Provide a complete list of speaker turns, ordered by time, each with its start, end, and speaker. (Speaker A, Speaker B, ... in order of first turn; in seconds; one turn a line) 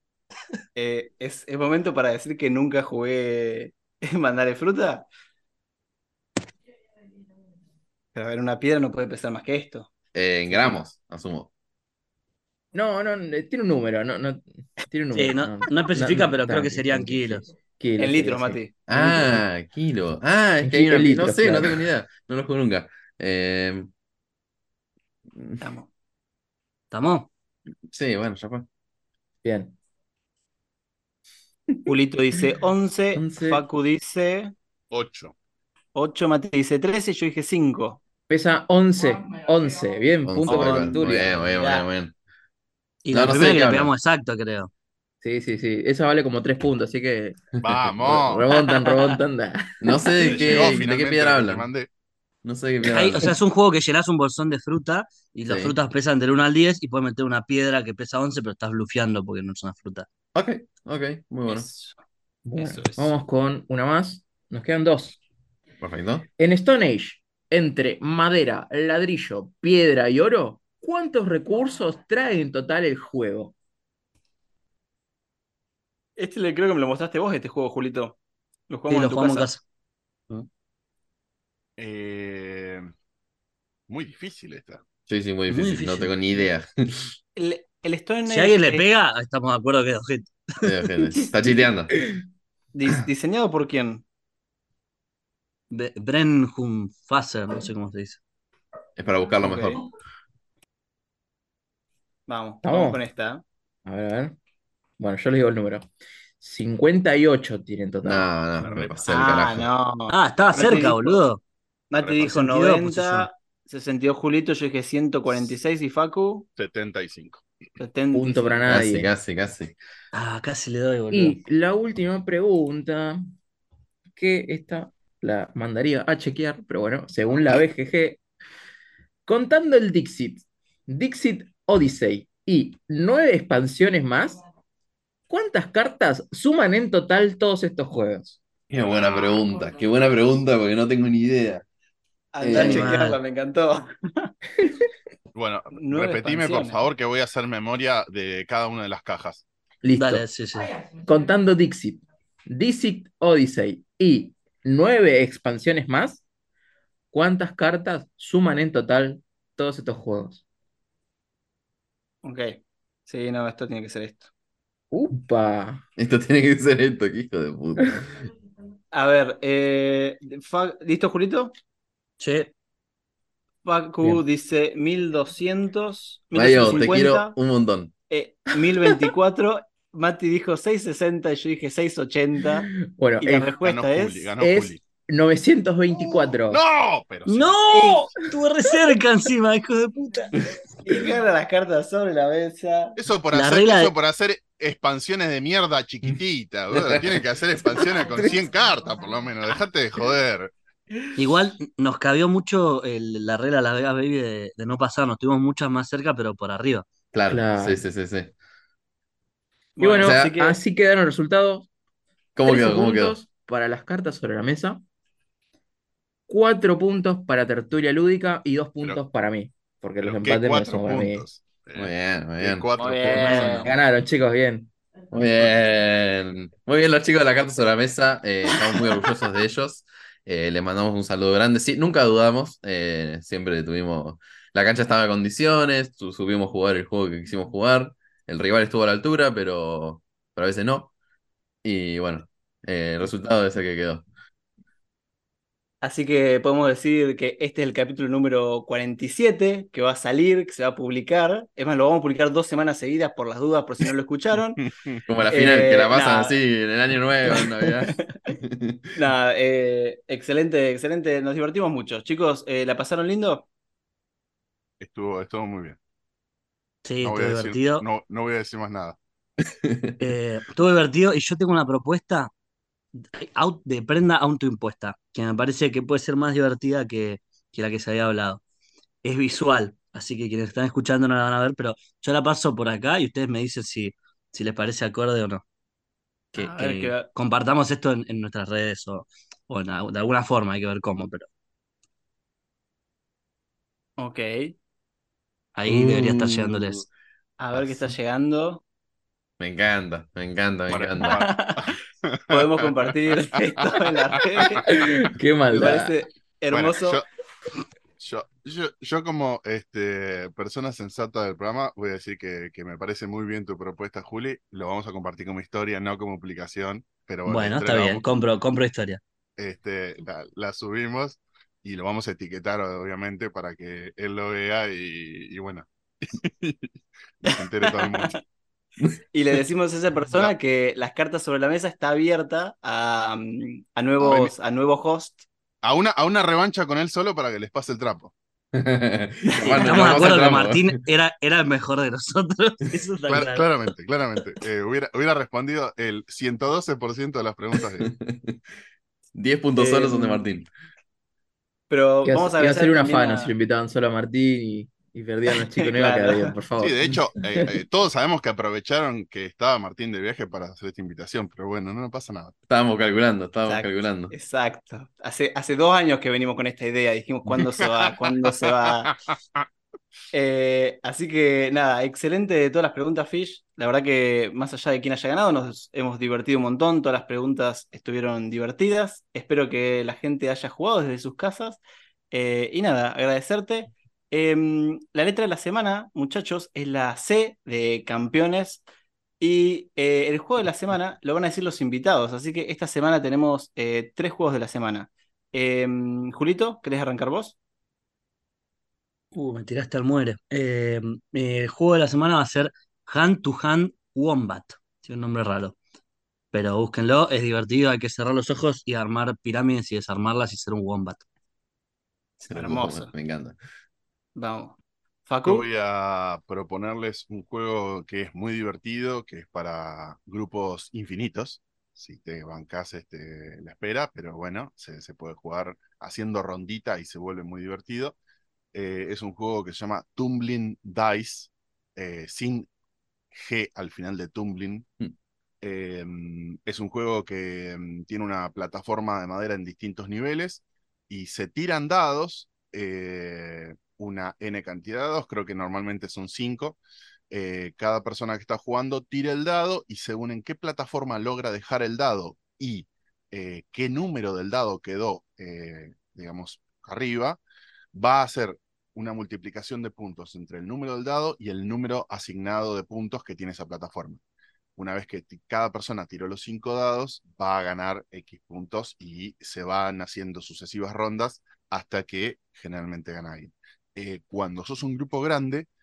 Speaker A: 0.7-5.0
Speaker A: 8.1-9.9
Speaker B: 10.1-11.5
Speaker C: 12.7-19.4
Speaker D: 15.1-17.4
Speaker A: 18.0-18.8
Speaker B: 18.9-23.9
Speaker C: 20.6-21.8
Speaker B: 25.3-25.6
Speaker A: 25.6-25.9
Speaker D: 26.9-27.3
Speaker B: 27.9-28.6
Speaker C: 29.4-29.8
Speaker A: 31.9-34.5
Speaker C: 33.1-33.6
Speaker E: 34.9-35.3
Speaker A: 35.9-38.0
Speaker C: 38.3-41.4
Speaker B: 40.2-42.1
Speaker A: 40.5-41.9
Speaker D: 43.0-44.7
Speaker B: 43.1-43.9
Speaker C: 45.2-50.5
Speaker E: 47.6-48.5
Speaker B: 47.6-48.2
Speaker B: 49.8-51.7
Speaker E: 50.3-51.9
Speaker B: 52.4-53.3
Speaker D: 52.8-60.1
Speaker B: 55.5-55.8
Speaker B: 60.3-61.7
Speaker A: 61.5-62.0
Speaker C: 62.4-65.2
Speaker A: 62.5-63.1
Speaker B: 65.8-66.3
Speaker C: 66.4-73.5
Speaker A: 76.2-78.2
Speaker A: 78.7-79.6
Speaker D: 78.9-79.6
Speaker E: 81.8-82.9
Speaker E: 83.9-84.8
Speaker B: 85.1-87.2
Speaker D: 85.5-86.2
Speaker A: 87.3-88.8
Speaker D: 88.3-90.7
Speaker B: 90.6-92.0
Speaker A: 92.7-94.0
Speaker D: 95.7-98.2
Speaker B: 99.0-99.8
Speaker A: 99.4-99.8
Speaker A: 102.3-103.4
Speaker C: 102.6-103.0
Speaker C: 103.8-104.3
Speaker C: 105.0-105.9
Speaker C: 106.4-108.3
Speaker B: 108.0-109.7
Speaker E: 108.6-109.0
Speaker A: 109.0-111.2
Speaker D: 110.1-111.4
Speaker E: 110.5-110.9
Speaker A: 111.9-116.5
Speaker E: 112.0-112.3
Speaker D: 112.2-113.3
Speaker E: 116.6-117.4
Speaker A: 117.8-118.6
Speaker C: 118.1-119.1
Speaker B: 118.7-119.8
Speaker D: 120.1-121.4
Speaker C: 121.1-123.2
Speaker C: 124.1-128.2
Speaker C: 129.2-134.4
Speaker C: 135.3-138.4
Speaker B: 138.7-141.6
Speaker E: 138.8-139.4
Speaker A: 142.3-144.3
Speaker B: 142.4-142.9
Speaker D: 142.5-143.2
Speaker E: 145.3-149.4
Speaker A: 145.7-146.8
Speaker C: 149.8-150.3
Speaker D: 149.9-150.8
Speaker C: 150.9-156.2
Speaker C: 157.1-160.4
Speaker A: 162.2-164.3
Speaker C: 164.9-165.8
Speaker B: 166.0-168.1
Speaker A: 168.9-171.5
Speaker D: 172.2-172.5
Speaker A: 173.6-177.3
Speaker B: 176.3-177.9
Speaker A: 178.1-182.7
Speaker C: 182.7-183.6
Speaker A: 183.2-184.3
Speaker E: 183.6-184.8
Speaker C: 184.4-186.6
Speaker E: 186.0-188.1
Speaker D: 187.2-190.3
Speaker A: 190.8-193.0
Speaker E: 192.9-200.5
Speaker D: 193.3-193.9
Speaker B: 196.7-197.2
Speaker B: 197.9-198.2
Speaker D: 201.1-206.9
Speaker B: 207.1-208.3
Speaker C: 207.3-207.8
Speaker A: 209.8-210.6
Speaker C: 209.8-211.7
Speaker B: 210.0-210.3
Speaker B: 212.3-213.2
Speaker C: 212.4-214.8
Speaker C: 216.3-221.2
Speaker E: 220.0-223.7
Speaker B: 221.7-223.6
Speaker A: 222.8-223.7
Speaker D: 223.2-223.5
Speaker C: 223.4-224.7
Speaker B: 225.1-240.9
Speaker B: 241.6-244.0
Speaker A: 245.8-254.6
Speaker E: 254.7-255.0
Speaker B: 255.1-258.9
Speaker A: 255.3-256.4
Speaker A: 257.3-258.1
Speaker A: 258.9-263.5
Speaker E: 264.8-265.8
Speaker D: 266.8-267.9
Speaker E: 267.0-269.0
Speaker B: 269.5-270.0
Speaker D: 270.0-272.3
Speaker D: 273.0-278.4
Speaker D: 279.0-285.4
Speaker D: 286.3-291.3
Speaker A: 286.3-287.1
Speaker A: 294.0-294.5
Speaker D: 295.5-296.9
Speaker B: 295.7-296.8
Speaker A: 297.4-298.6
Speaker B: 299.4-301.2
Speaker E: 300.7-304.8
Speaker A: 301.0-301.7
Speaker A: 302.3-304.7
Speaker C: 304.6-305.9
Speaker A: 305.5-307.0
Speaker E: 306.5-307.1
Speaker E: 308.0-318.0
Speaker D: 317.2-319.0
Speaker E: 319.4-328.1
Speaker A: 327.3-328.2
Speaker A: 329.1-335.2
Speaker E: 334.0-334.3
Speaker E: 335.6-338.1
Speaker B: 338.5-340.7
Speaker A: 339.3-340.3
Speaker D: 339.4-343.7
Speaker E: 343.1-347.9
Speaker B: 347.8-348.4
Speaker B: 349.1-350.5
Speaker A: 349.5-350.3
Speaker A: 351.7-353.3
Speaker C: 352.1-357.4
Speaker A: 355.3-356.4
Speaker E: 356.6-362.3
Speaker B: 362.5-364.1
Speaker A: 363.4-368.9
Speaker E: 368.9-369.4
Speaker A: 370.1-381.6
Speaker A: 382.1-388.6
Speaker A: 389.2-397.4
Speaker D: 399.1-405.6
Speaker D: 406.3-411.0
Speaker A: 412.2-412.9
Speaker B: 412.3-413.4
Speaker A: 414.1-415.4
Speaker E: 415.2-428.0
Speaker E: 428.5-432.5
Speaker E: 433.1-434.7
Speaker E: 435.4-446.6
Speaker E: 447.1-457.2
Speaker E: 457.7-464.0
Speaker E: 464.6-475.5